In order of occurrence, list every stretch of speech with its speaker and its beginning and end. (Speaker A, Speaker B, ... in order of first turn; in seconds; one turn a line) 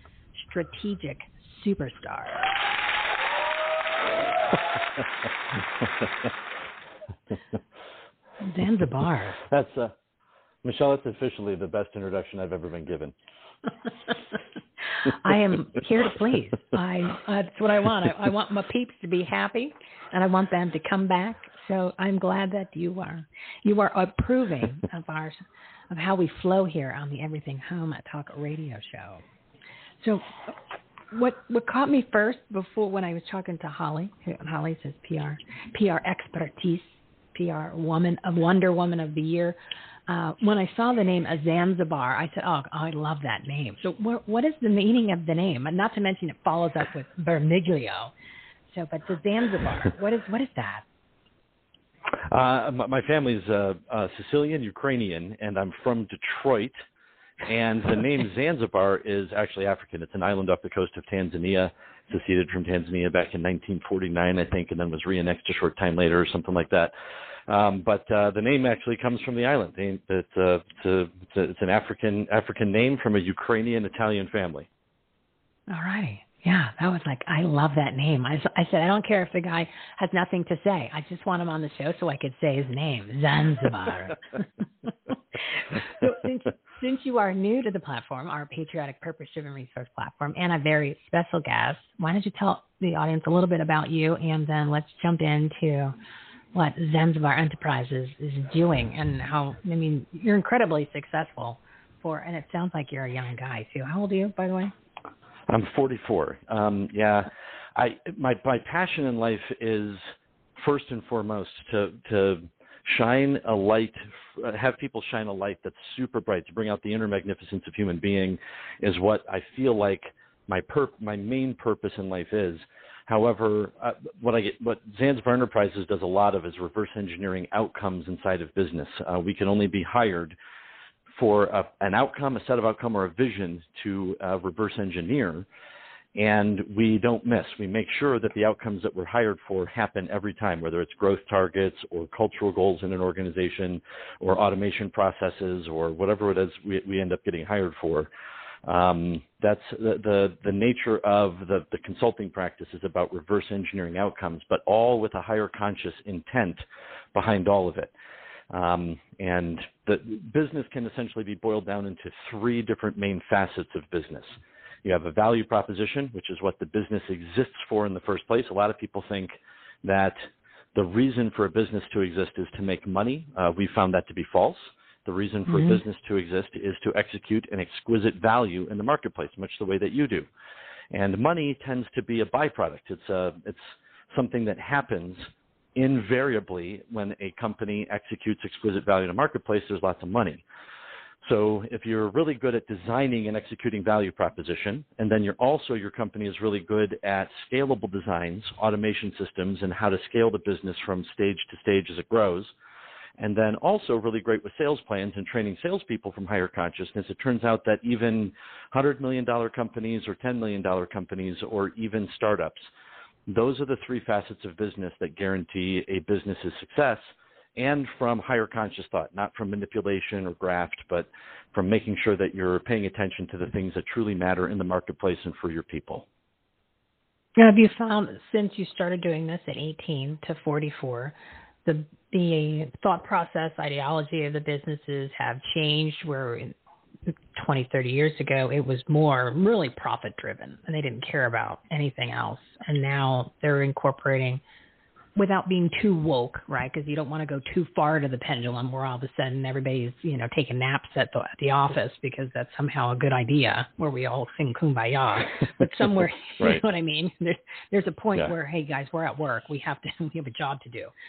Speaker A: 0.4-2.5
Speaker B: 5.8-6.3
Speaker A: 8.4-9.4
Speaker B: 9.4-9.9
Speaker B: 10.6-13.1
Speaker A: 15.1-29.2
Speaker A: 30.0-30.6
Speaker A: 31.1-48.1
Speaker A: 48.7-50.8
Speaker B: 52.3-56.8
Speaker B: 57.4-66.9
Speaker B: 67.5-74.7
Speaker A: 75.7-84.5
Speaker A: 85.1-96.0
Speaker A: 96.5-104.7
Speaker B: 105.5-130.4
Speaker B: 131.2-135.5
Speaker B: 136.2-148.1
Speaker B: 148.7-157.9
Speaker B: 158.5-180.3
Speaker A: 175.5-175.8
Speaker B: 180.9-190.4
Speaker B: 191.2-202.5
Speaker B: 203.2-212.7
Speaker B: 213.3-226.1
Speaker A: 227.4-236.6
Speaker A: 237.1-244.4
Speaker A: 245.2-260.9